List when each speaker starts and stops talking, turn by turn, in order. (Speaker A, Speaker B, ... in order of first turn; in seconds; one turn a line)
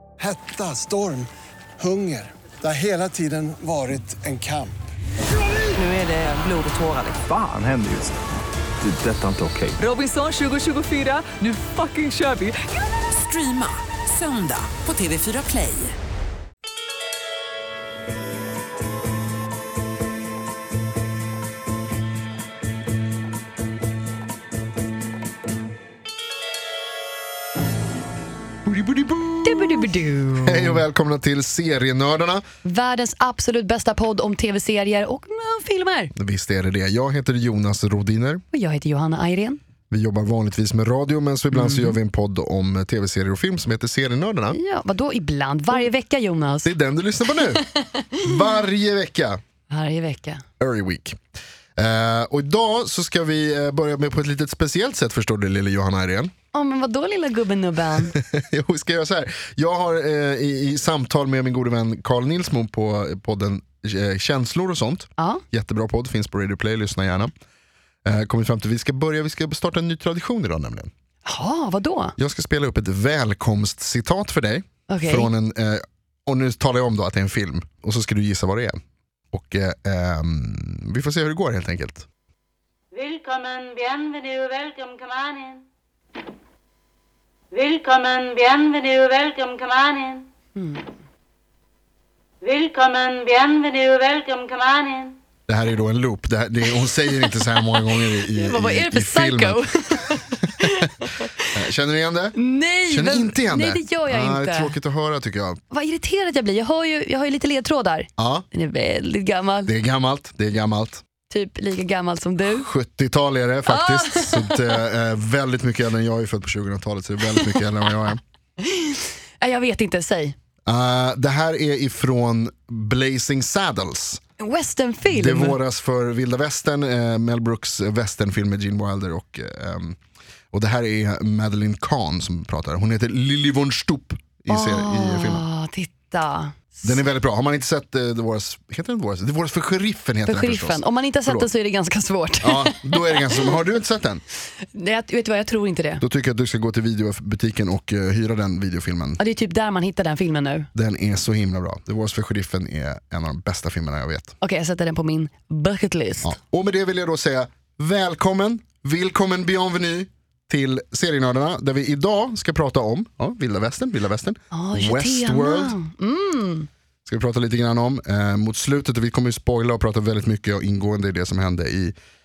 Speaker A: 0.2-1.3
Speaker A: 1.8-4.8
Speaker B: 5.7-7.3
Speaker C: 7.2-8.2
Speaker C: 8.8-9.8
Speaker B: 9.8-15.9
Speaker D: 28.6-32.4
Speaker E: 29.4-30.8
Speaker E: 32.6-36.1
Speaker D: 36.1-38.4
Speaker E: 38.5-39.6
Speaker D: 39.9-44.6
Speaker E: 41.5-42.0
Speaker E: 44.5-46.7
Speaker D: 46.6-47.6
Speaker E: 47.5-48.3
Speaker D: 48.2-49.4
Speaker E: 49.7-50.4
Speaker D: 50.6-51.2
Speaker D: 51.8-56.3
Speaker E: 56.5-58.1
Speaker D: 58.1-67.3
Speaker E: 65.2-65.4
Speaker D: 68.0-70.9
Speaker E: 71.2-72.2
Speaker D: 72.2-78.8
Speaker E: 74.9-75.3
Speaker D: 79.3-82.1
Speaker F: 82.9-85.6
Speaker F: 87.5-90.3
Speaker E: 90.5-90.9
Speaker F: 92.4-95.2
Speaker D: 95.5-100.8
Speaker E: 98.0-101.5
Speaker D: 101.5-102.3
Speaker E: 102.3-104.7
Speaker D: 102.9-105.6
Speaker E: 105.7-109.7
Speaker D: 108.2-108.4
Speaker D: 109.7-111.0
Speaker E: 111.3-112.7
Speaker D: 112.6-118.2
Speaker E: 113.7-114.8
Speaker E: 118.6-120.3
Speaker D: 120.7-124.2
Speaker E: 124.4-125.6
Speaker D: 125.0-130.0
Speaker D: 130.5-135.4
Speaker E: 134.5-136.9
Speaker D: 136.8-141.5
Speaker E: 140.2-143.5
Speaker D: 142.4-144.2
Speaker E: 144.7-146.0
Speaker D: 146.0-149.2
Speaker E: 149.2-150.7
Speaker D: 150.7-154.3
Speaker E: 154.4-156.3
Speaker D: 156.2-165.8
Speaker E: 164.5-166.7
Speaker D: 167.1-171.9